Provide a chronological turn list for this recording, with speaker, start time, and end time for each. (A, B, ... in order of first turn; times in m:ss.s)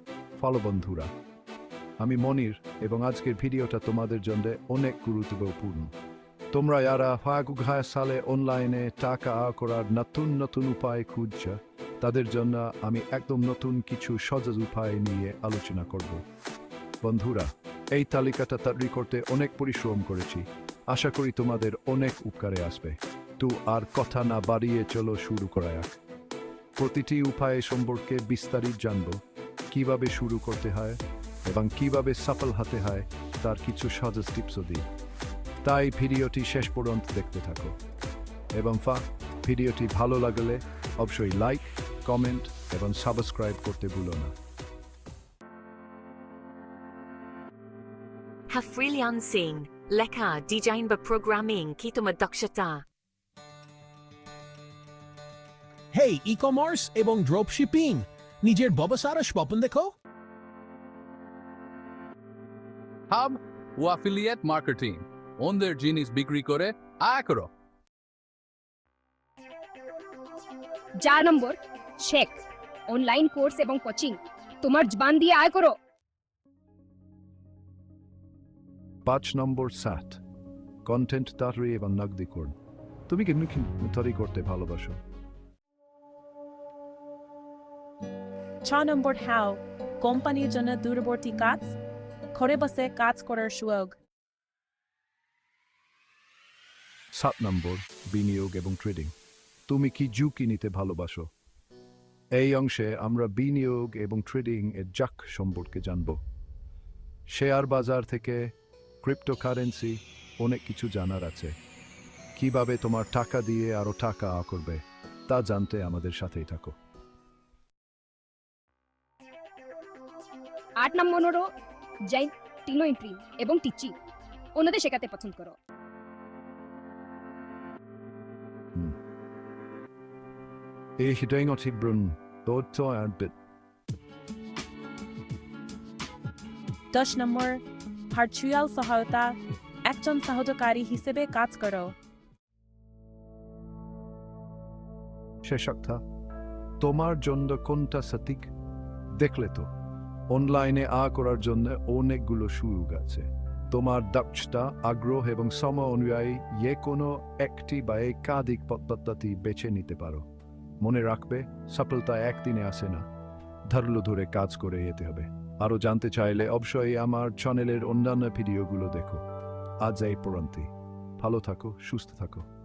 0:00.4-0:01.1 A
0:02.0-0:05.9 A
0:06.5-0:16.2 A
0:17.0-0:26.0 A
0:26.8-0:29.2 A
0:29.7-0:34.8 A
0:35.6-0:37.8 A
0:38.5-0:44.3 A
0:48.5-0:52.8 B
0:55.9-0:59.9 C
1:03.1-1:07.5 D
1:11.0-1:15.7 E
1:19.0-1:20.2 A
1:20.8-1:22.6 A
1:23.1-1:25.0 A
1:28.6-1:31.8 F
1:32.4-1:34.0 F
1:37.2-1:39.1 A
1:39.7-1:41.3 A
1:42.4-1:46.2 A
1:47.3-1:48.4 A
1:49.0-1:51.5 A
1:52.4-1:56.8 A
2:00.8-2:01.5 E
2:02.1-2:04.0 E
2:04.6-2:05.6 E
2:11.0-2:13.3 A
2:16.9-2:21.9 F
2:25.4-2:26.0 A
2:26.8-2:28.5 A
2:29.2-2:29.7 A
2:30.3-2:40.2 A
2:40.8-2:43.0 A
2:43.7-2:49.2 A
2:49.8-2:52.5 A